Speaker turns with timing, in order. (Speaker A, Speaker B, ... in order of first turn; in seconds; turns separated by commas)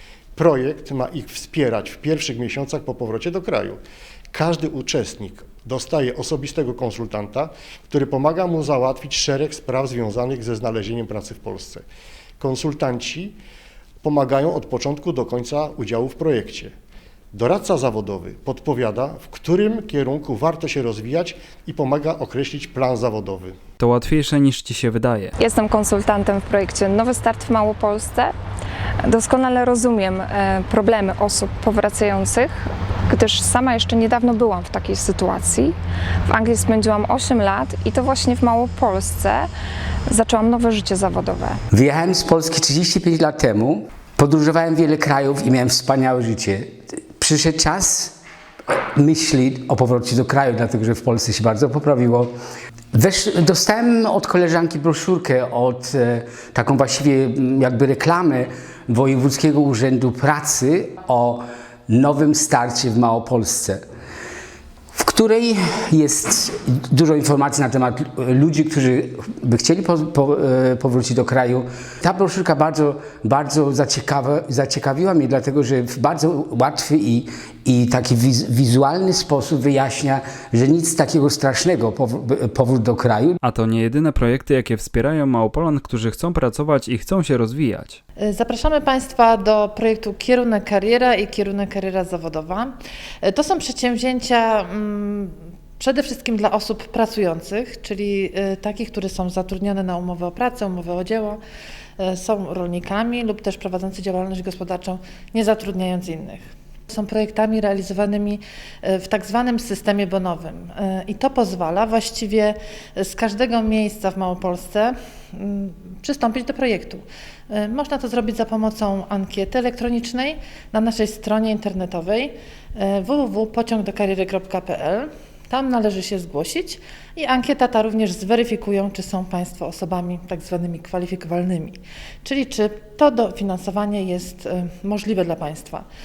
Speaker A: 0.3-3.8, Speaker A: 4.3-11.8, Speaker A: 12.4-13.4, Speaker A: 14.0-16.7, Speaker A: 17.3-23.6, Speaker B: 23.8-25.3, Speaker C: 25.4-28.3, Speaker C: 29.1-35.7, Speaker C: 36.3-39.5, Speaker C: 40.1-41.6, Speaker D: 41.7-48.1, Speaker D: 48.7-52.3, Speaker D: 52.9-63.8, Speaker D: 64.9-83.4, Speaker B: 83.4-88.0, Speaker E: 88.2-101.4, Speaker E: 102.0-135.8